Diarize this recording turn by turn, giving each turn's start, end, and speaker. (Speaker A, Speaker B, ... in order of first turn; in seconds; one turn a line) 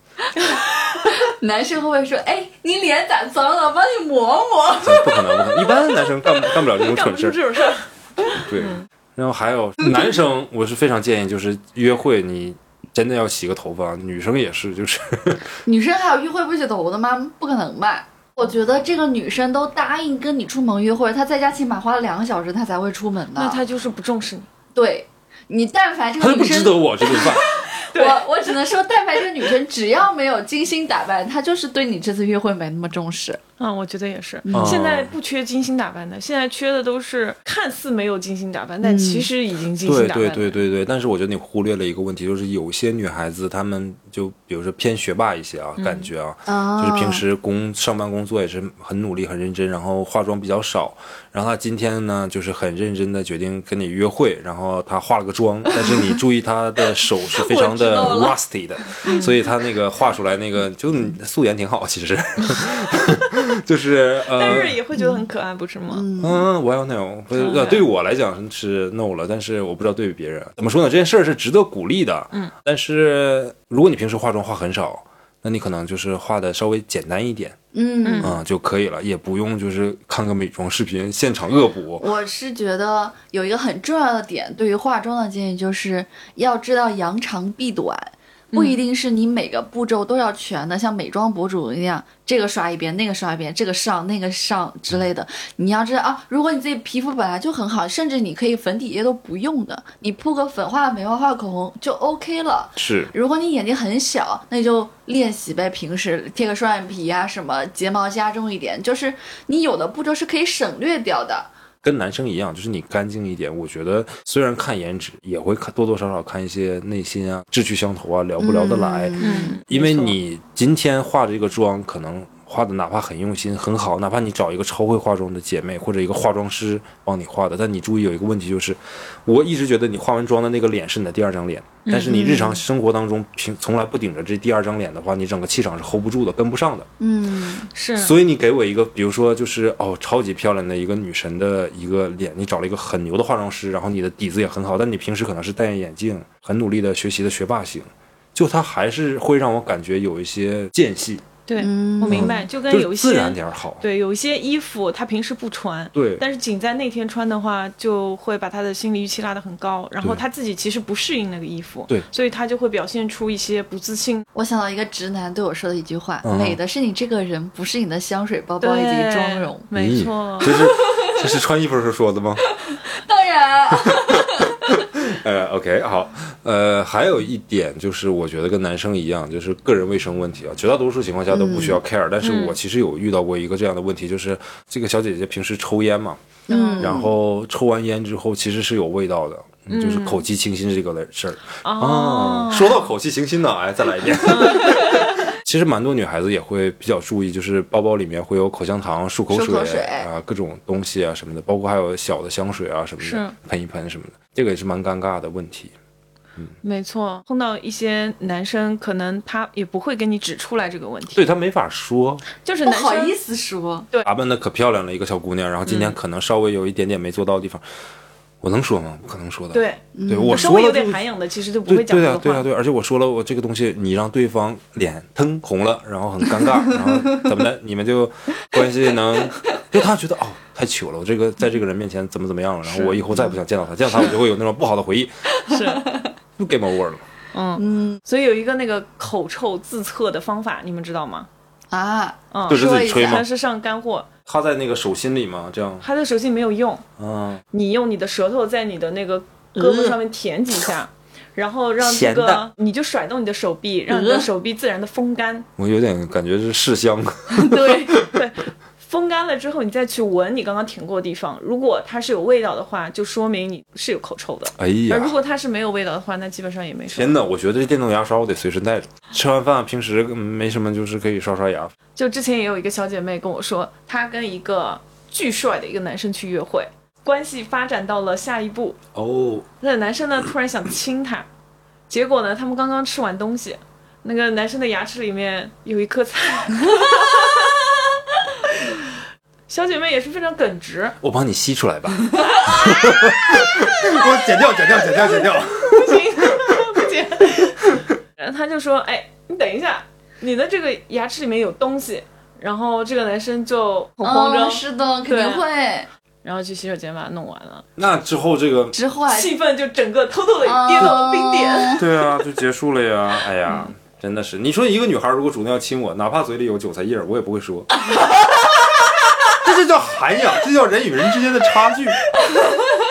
Speaker A: 0.4-5.7
Speaker B: 4.8-7.4
Speaker C: 6.7-8.8
Speaker B: 8.4-15.5
Speaker A: 15.6-23.6
Speaker C: 23.3-24.5
Speaker A: 24.7-33.4
Speaker B: 26.2-27.4
Speaker C: 27.9-28.3
Speaker C: 33.6-40.6
Speaker A: 34.4-34.8
Speaker B: 34.5-35.1
Speaker A: 38.8-39.3
Speaker B: 39.8-64.8
Speaker C: 45.8-46.1
Speaker A: 46.5-47.2
Speaker A: 55.8-56.0
Speaker A: 57.3-58.4
Speaker C: 59.0-59.3
Speaker C: 64.3-66.0
Speaker A: 64.5-65.2
Speaker A: 65.9-66.5
Speaker B: 66.2-77.6
Speaker C: 67.4-67.8
Speaker A: 77.7-78.4
Speaker C: 78.0-78.3
Speaker B: 78.2-82.0
Speaker A: 82.0-111.5
Speaker C: 88.5-88.8
Speaker B: 102.8-103.1
Speaker B: 111.8-119.2
Speaker A: 118.4-119.6
Speaker C: 119.2-120.2
Speaker B: 119.7-136.9
Speaker C: 131.9-132.3
Speaker A: 132.1-132.6
Speaker A: 137.0-137.7
Speaker C: 137.7-138.1
Speaker B: 138.0-151.2
Speaker C: 151.5-164.2
Speaker A: 151.6-152.4
Speaker B: 152.1-153.8
Speaker B: 155.9-156.2
Speaker A: 164.3-169.7
Speaker B: 166.2-166.6
Speaker C: 168.6-170.5
Speaker B: 169.7-172.5
Speaker A: 170.4-171.3
Speaker A: 172.9-174.8
Speaker B: 174.7-186.2
Speaker A: 181.3-181.8
Speaker C: 182.2-182.6
Speaker C: 186.5-186.9
Speaker A: 186.5-187.1
Speaker B: 186.8-205.7
Speaker C: 189.7-190.2
Speaker C: 191.6-192.8
Speaker C: 194.2-195.1
Speaker A: 199.3-200.1
Speaker C: 203.0-203.3
Speaker C: 206.6-211.2
Speaker B: 211.1-212.2
Speaker C: 212.4-213.1
Speaker A: 212.6-213.9
Speaker B: 214.0-217.6
Speaker C: 215.7-216.0
Speaker B: 218.4-221.0
Speaker C: 219.5-222.4
Speaker A: 219.9-220.5
Speaker B: 221.7-235.1
Speaker A: 226.4-227.2
Speaker C: 232.7-233.0
Speaker C: 235.5-235.8
Speaker A: 235.5-236.1
Speaker B: 236.4-237.0
Speaker C: 237.3-241.3
Speaker A: 237.6-238.0
Speaker A: 241.7-243.2
Speaker C: 242.3-244.1
Speaker B: 242.5-243.2
Speaker B: 244.2-245.8
Speaker C: 245.8-246.8
Speaker B: 247.0-247.4
Speaker C: 247.5-255.5
Speaker A: 249.6-250.0
Speaker B: 251.8-252.5
Speaker A: 253.9-254.3
Speaker B: 255.6-258.1
Speaker A: 257.3-258.0
Speaker C: 258.1-267.1
Speaker B: 264.6-265.1
Speaker B: 266.9-271.7
Speaker C: 271.9-278.8
Speaker B: 278.9-279.4
Speaker C: 279.6-281.3
Speaker C: 281.9-287.5
Speaker C: 288.4-288.8
Speaker C: 289.5-291.0
Speaker B: 291.0-296.5
Speaker C: 292.2-293.0
Speaker C: 295.0-305.4
Speaker A: 304.0-305.9
Speaker C: 306.2-307.6
Speaker B: 307.8-308.7
Speaker A: 308.7-309.3
Speaker C: 309.1-311.8
Speaker A: 310.4-311.9
Speaker B: 311.7-317.7
Speaker A: 317.9-318.2
Speaker B: 319.3-322.0